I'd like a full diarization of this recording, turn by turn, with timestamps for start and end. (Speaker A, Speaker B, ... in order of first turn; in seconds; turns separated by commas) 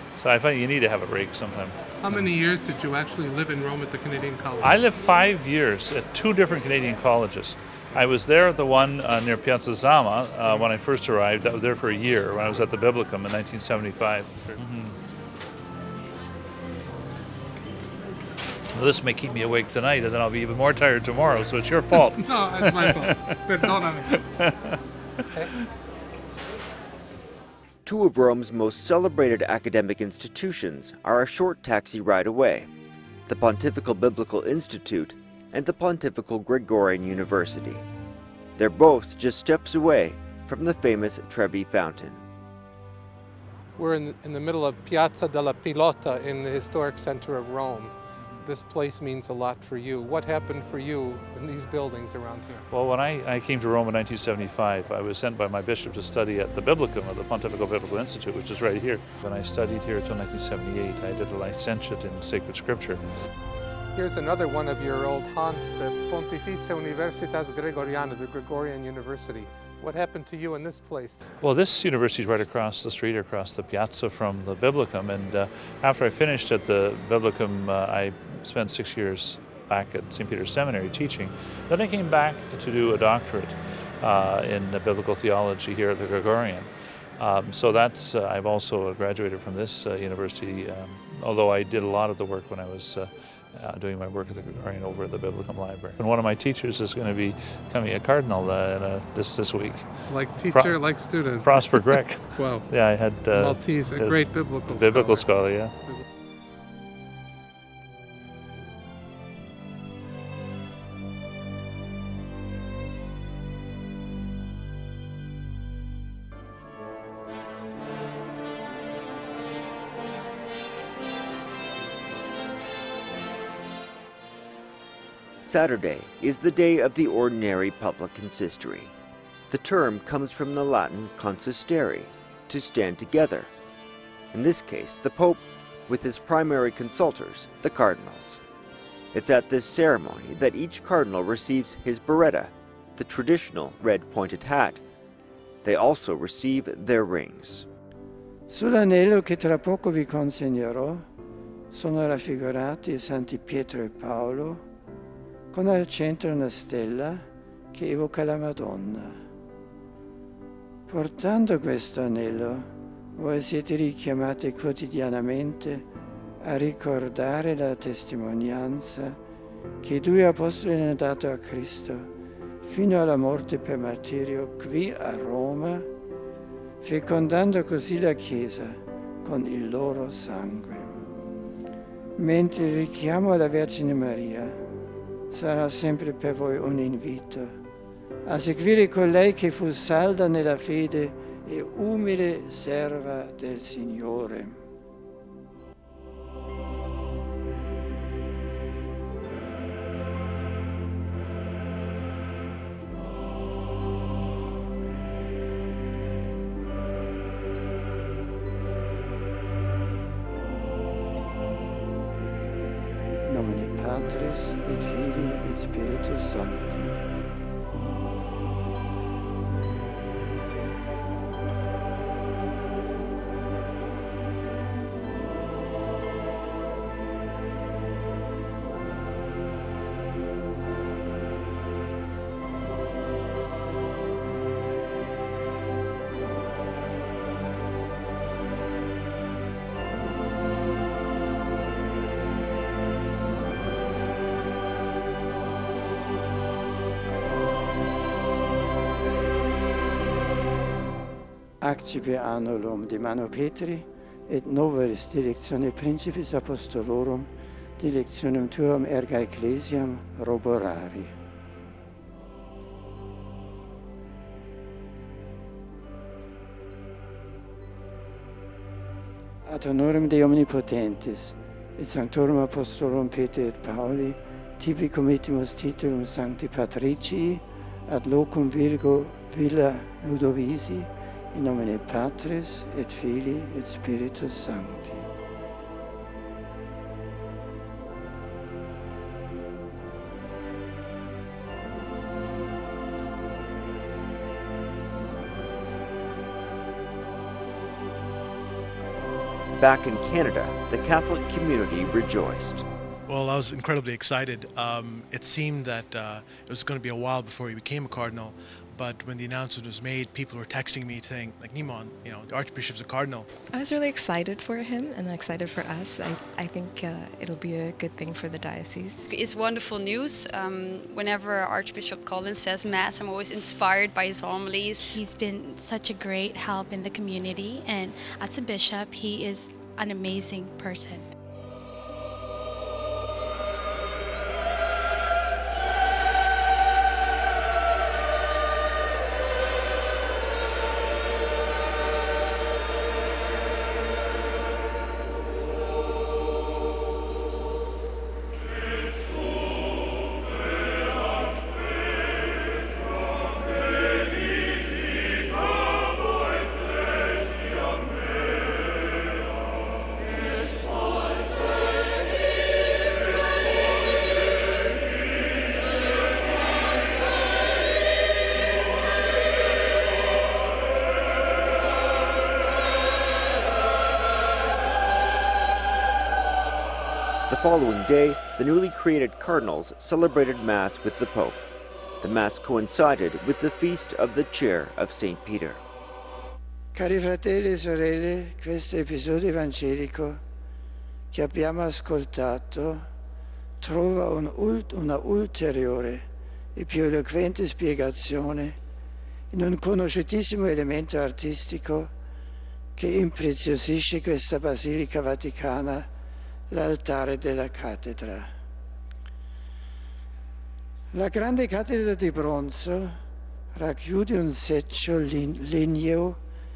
Speaker A: 0.2-2.3, Speaker B: 2.0-4.9, Speaker A: 4.6-14.9, Speaker A: 18.7-24.8, Speaker B: 21.9-24.2, Speaker C: 27.8-32.7, Speaker C: 33.3-37.8, Speaker C: 38.6-42.2, Speaker B: 43.8-52.6, Speaker A: 48.2-48.4, Speaker A: 52.7-63.0, Speaker B: 63.9-71.2, Speaker A: 71.4-99.9, Speaker B: 100.1-106.0, Speaker A: 100.4-105.7, Speaker C: 125.4-128.9, Speaker C: 129.5-133.5, Speaker C: 134.3-138.4, Speaker C: 139.1-144.8, Speaker C: 145.6-147.7, Speaker D: 148.5-151.1, Speaker D: 151.7-154.6, Speaker D: 155.5-159.2, Speaker D: 160.9-165.8, Speaker D: 166.4-169.2, Speaker D: 169.8-172.1, Speaker D: 172.6-175.9, Speaker D: 176.8-181.0, Speaker D: 182.2-184.6, Speaker D: 185.3-187.6, Speaker D: 188.2-194.6, Speaker D: 213.2-216.9, Speaker D: 251.6-261.1, Speaker D: 269.4-285.1, Speaker C: 299.6-302.6, Speaker E: 303.1-313.3, Speaker F: 313.5-319.0, Speaker G: 319.1-325.0, Speaker H: 324.8-331.1, Speaker C: 377.3-381.4, Speaker C: 382.0-385.6, Speaker D: 386.7-390.2, Speaker D: 391.1-392.9, Speaker D: 393.6-396.0, Speaker D: 396.5-398.6, Speaker D: 399.3-401.9, Speaker D: 402.8-405.9, Speaker D: 406.5-408.3, Speaker D: 410.9-413.0, Speaker D: 413.5-416.2